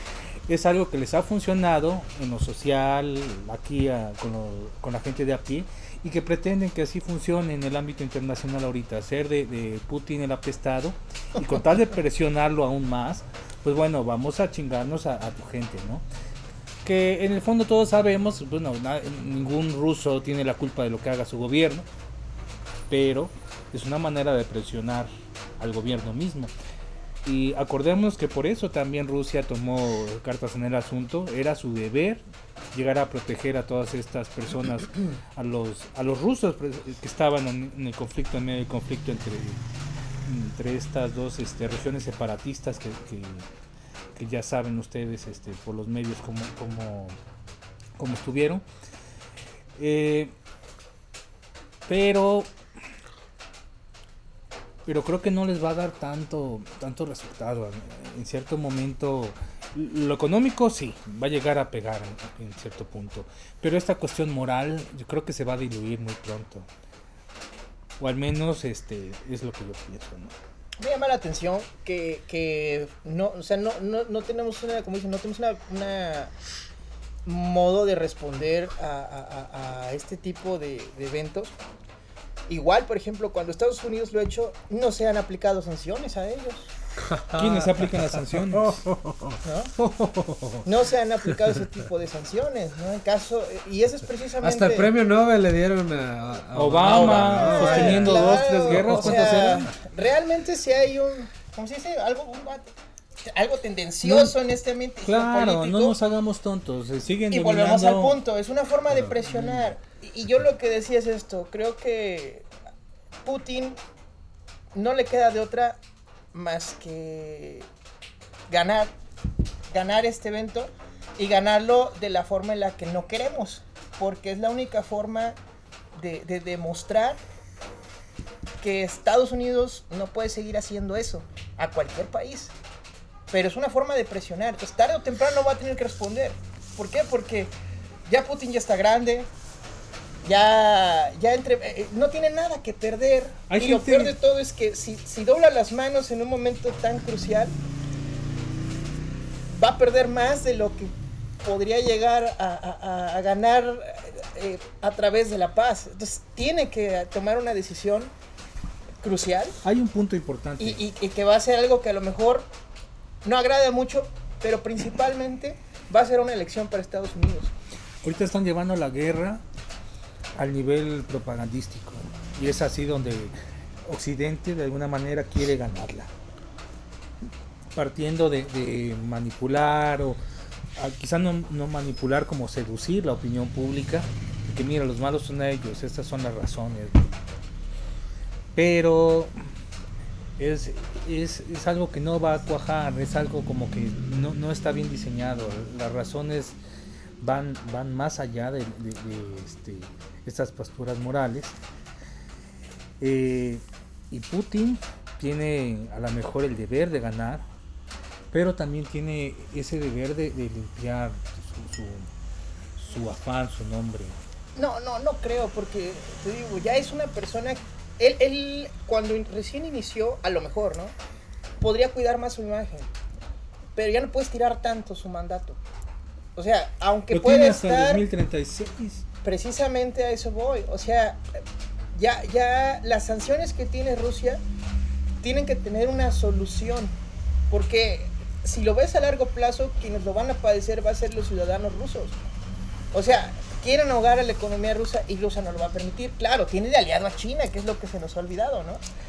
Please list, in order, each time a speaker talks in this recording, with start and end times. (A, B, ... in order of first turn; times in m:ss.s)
0:00.5-0:16.0 A
0:16.8-0:21.9 A
0:22.9-0:26.5 A
0:27.2-0:32.2 A
0:32.7-0:39.6 A
0:40.2-0:43.5 A
0:44.2-0:47.2 A
0:48.0-0:48.6 A
0:49.8-0:50.3 A
0:51.9-0:52.5 A
0:54.9-1:06.7 A
1:08.0-1:10.4 A
1:10.8-1:16.3 B
1:17.2-1:21.6 B
1:22.5-1:26.7 B
1:27.1-1:30.6 C
1:27.3-1:28.8 A
1:29.4-1:29.7 B
1:30.6-1:34.9 B
1:34.4-1:39.2 C
1:36.6-1:39.7 A
1:36.8-1:42.7 B
1:43.2-1:46.0 B
1:44.0-1:44.4 A
1:45.0-1:48.2 A
1:47.3-1:52.5 B
1:49.3-1:49.7 A
1:53.2-1:53.8 B
1:54.7-1:55.8 B
1:56.3-1:57.7 B
1:58.5-1:58.9 B
1:59.7-2:05.4 B
2:05.9-2:07.2 B
2:08.6-2:12.5 B
2:13.3-2:17.5 B
2:18.1-2:19.3 B
2:20.2-2:27.6 B
2:23.5-2:24.2 A
2:29.5-2:38.1 B
2:39.0-2:39.6 B
2:39.6-2:40.8 A
2:40.6-2:42.5 B
2:43.2-2:47.5 B
2:48.0-2:49.4 A
2:50.4-2:53.3 A
2:53.8-2:56.1 A
2:57.8-3:00.2 A
3:00.8-3:07.2 A
3:08.6-3:09.3 A
3:10.4-3:16.6 A
3:17.2-3:21.6 A
3:23.0-3:27.5 A
3:28.3-3:32.1 A
3:32.8-3:34.2 A
3:34.6-3:41.0 B
3:41.6-3:42.9 B
3:43.8-3:45.6 B
3:46.4-3:48.0 B
3:47.1-3:49.0 A
3:49.2-3:51.4 B
3:52.0-3:54.4 B
3:55.2-3:56.9 B
3:57.5-4:02.2 B
4:02.9-4:08.8 B